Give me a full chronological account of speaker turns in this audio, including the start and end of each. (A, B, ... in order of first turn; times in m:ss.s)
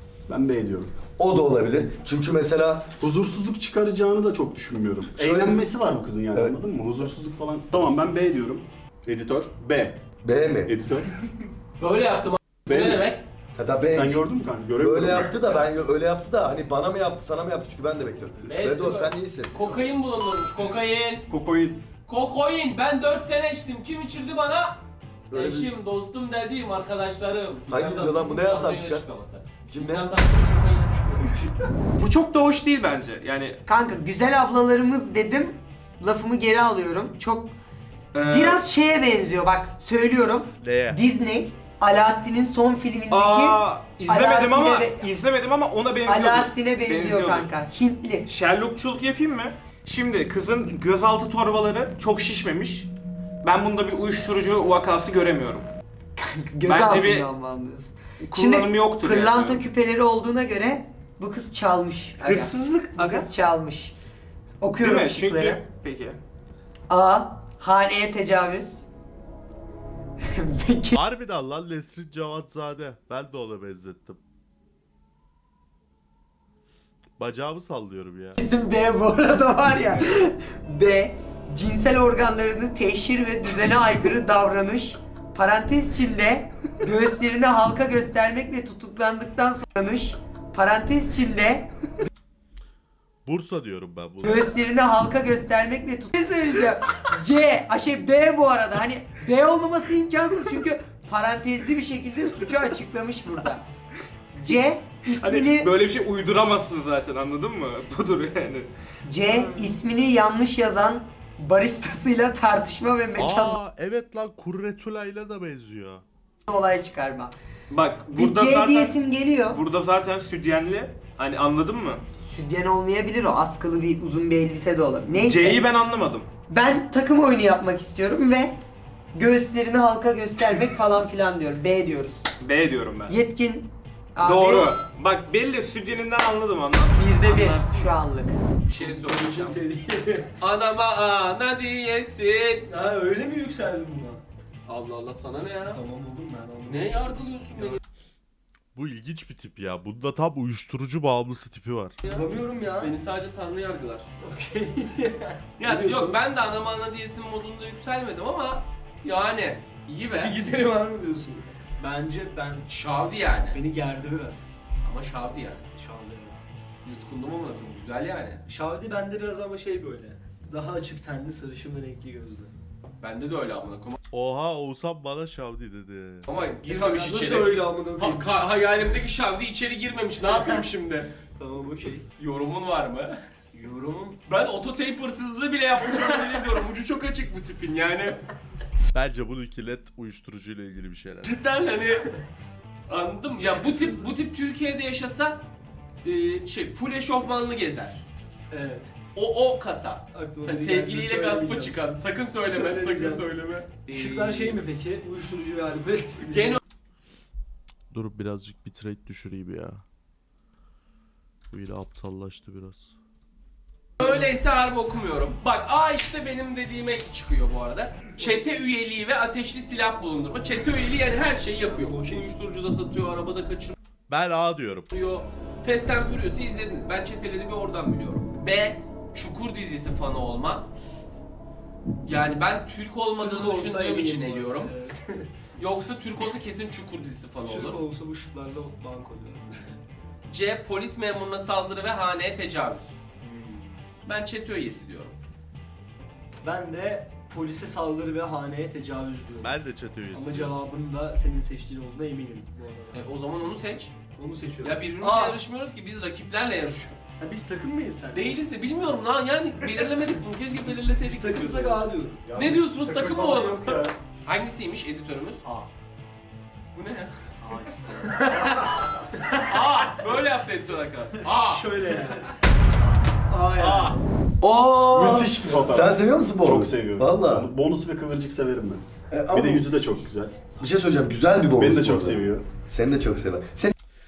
0:00.3-0:00.9 A
0:01.2-0:02.9 B
0:03.0-0:10.0 A
0:05.2-0:05.6 B
0:10.2-0:10.7 B
0:10.6-0:11.1 A
0:11.8-0:13.2 C
0:12.7-0:13.0 A
0:13.6-0:14.2 B
0:13.9-0:15.3 A
0:14.8-0:19.6 B
0:18.4-0:21.2 C
0:21.3-0:21.8 A
0:22.1-0:24.8 C
0:25.3-0:25.7 B
0:25.3-0:31.5 C
0:27.7-0:29.0 B
0:29.7-0:30.1 B
0:31.9-0:33.6 D
0:33.6-0:37.5 E
0:38.1-0:38.6 D
0:38.2-0:45.1 E
0:40.6-0:41.0 F
0:43.1-0:47.5 D
0:46.0-0:48.2 E
0:48.2-0:52.9 D
0:53.4-0:55.7 D
0:56.2-1:03.9 E
0:56.6-0:57.3 D
0:58.2-0:59.6 D
1:02.2-1:03.3 D
1:04.6-1:05.6 E
1:04.8-1:06.2 D
1:06.9-1:08.8 E
1:10.3-1:11.0 E
1:10.9-1:14.2 F
1:17.2-1:18.4 F
1:18.4-1:31.7 E
1:33.2-1:34.5 F
1:34.2-1:43.6 E
1:44.4-1:45.7 E
1:45.1-1:48.7 D
1:49.0-1:53.6 E
1:49.2-1:49.7 D
1:53.2-1:56.0 F
1:56.5-1:57.3 E
1:57.7-1:58.9 D
1:58.1-1:59.6 E
1:59.5-2:02.0 D
2:02.2-2:05.6 E
2:05.1-2:06.3 D
2:06.5-2:08.5 E
2:09.1-2:12.3 E
2:12.4-2:13.2 D
2:13.1-2:14.7 E
2:14.2-2:17.0 D
2:17.0-2:18.4 E
2:17.2-2:17.9 C
2:18.6-2:19.6 C
2:18.7-2:20.3 G
2:20.4-2:22.7 C
2:22.7-2:24.2 G
2:24.7-2:25.8 C
2:25.7-2:27.8 G
2:26.7-2:27.8 C
2:28.7-2:32.0 F
2:32.0-2:32.9 G
2:32.8-2:34.1 C
2:34.2-2:36.2 G
2:35.6-2:40.4 C
2:40.1-2:42.7 G
2:42.7-2:43.6 C
2:43.5-2:44.5 G
2:44.8-2:45.6 C
2:45.7-2:46.4 G
2:46.8-2:48.4 C
2:48.5-2:52.5 G
2:53.0-2:54.0 C
2:54.1-2:56.3 F
2:56.3-3:01.1 C
2:56.6-2:58.3 G
3:00.3-3:00.6 G
3:01.4-3:02.0 G
3:02.2-3:03.2 C
3:03.5-3:04.2 G
3:04.2-3:08.2 C
3:08.9-3:11.4 F
3:11.2-3:12.1 C
3:12.9-3:15.4 C
3:13.4-3:14.1 G
3:16.0-3:18.0 C
3:18.5-3:18.9 G
3:19.1-3:24.6 C
3:20.1-3:21.8 G
3:22.4-3:23.3 G
3:23.9-3:26.6 G
3:26.3-3:26.6 C
3:27.9-3:29.8 F
3:31.5-3:32.9 F
3:34.0-3:43.7 C
3:41.6-3:42.2 G
3:44.1-3:44.9 F
3:44.9-3:50.6 C
3:52.0-3:54.7 C
3:53.1-3:55.3 G
3:55.6-3:57.8 C
3:57.4-3:59.7 G
4:00.3-4:03.0 C
4:03.2-4:03.8 G
4:04.0-4:05.2 C
4:06.4-4:09.5 G
4:09.4-4:10.5 F
4:10.1-4:13.0 G
4:12.9-4:13.9 C
4:14.2-4:15.4 G
4:14.6-4:17.0 C
4:17.2-4:18.4 G
4:18.1-4:25.5 C
4:21.0-4:22.2 G
4:22.2-4:24.0 A
4:26.7-4:32.2 C
4:28.0-4:29.9 G
4:31.2-4:32.3 G
4:33.3-4:34.0 G
4:33.6-4:34.0 C
4:34.7-4:40.4 A
4:34.7-4:35.2 D
4:34.8-4:37.5 B
4:39.1-4:39.7 B
4:40.6-4:43.7 B
4:41.6-4:42.4 A